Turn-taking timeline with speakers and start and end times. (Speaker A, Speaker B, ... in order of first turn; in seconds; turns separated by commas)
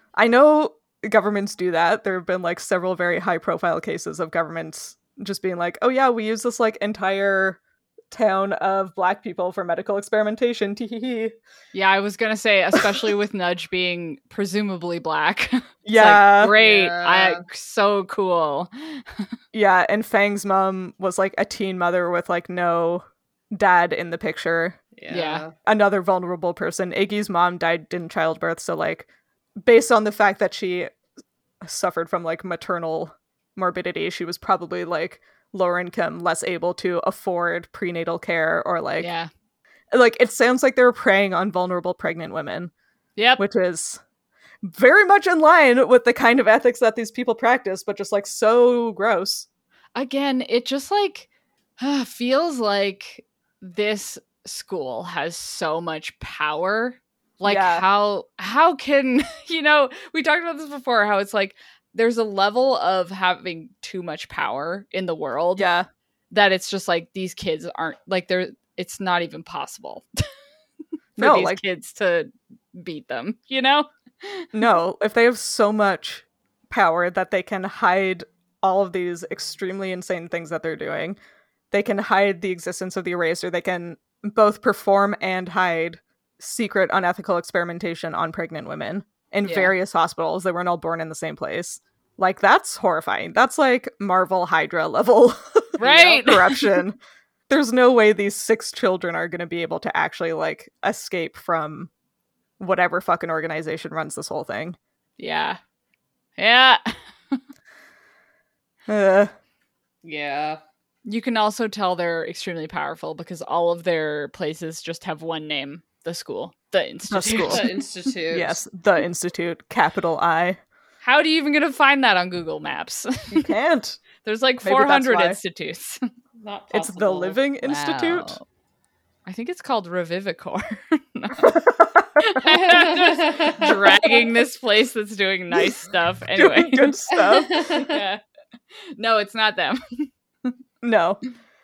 Speaker A: 0.1-7.6, Speaker A: 8.1-11.3, Speaker B: 11.7-19.2, Speaker A: 15.8-16.5, Speaker C: 16.6-17.4, Speaker A: 19.5-24.8, Speaker C: 24.9-25.5, Speaker B: 25.1-25.4, Speaker A: 25.6-29.1, Speaker A: 29.6-30.9, Speaker A: 31.6-39.1, Speaker B: 39.0-39.3, Speaker A: 39.9-42.7, Speaker B: 43.2-43.4, Speaker A: 43.4-44.0, Speaker A: 44.6-49.5, Speaker B: 49.9-51.3, Speaker B: 51.8-65.7, Speaker A: 57.4-57.9, Speaker A: 65.6-65.9, Speaker B: 66.3-70.0, Speaker A: 71.2-71.6, Speaker B: 71.2-74.5, Speaker A: 74.5-81.2, Speaker A: 81.7-97.0, Speaker B: 89.4-89.7, Speaker B: 95.8-96.8, Speaker A: 97.5-101.9, Speaker A: 102.6-104.8, Speaker B: 105.2-105.6, Speaker B: 106.4-107.4, Speaker A: 108.9-109.3, Speaker C: 110.0-110.6, Speaker B: 111.0-117.6, Speaker A: 117.1-117.7, Speaker C: 117.5-118.6, Speaker A: 118.3-120.6, Speaker B: 121.0-123.5, Speaker A: 123.3-124.0, Speaker B: 124.2-126.0, Speaker A: 124.6-125.4, Speaker C: 126.4-127.4, Speaker A: 126.7-128.4, Speaker B: 127.6-128.4, Speaker B: 129.2-131.6, Speaker A: 131.4-132.4, Speaker B: 132.2-137.1, Speaker C: 132.5-134.3, Speaker A: 136.3-137.8, Speaker C: 137.1-138.0, Speaker B: 137.7-138.2, Speaker B: 139.0-140.1, Speaker A: 140.8-141.2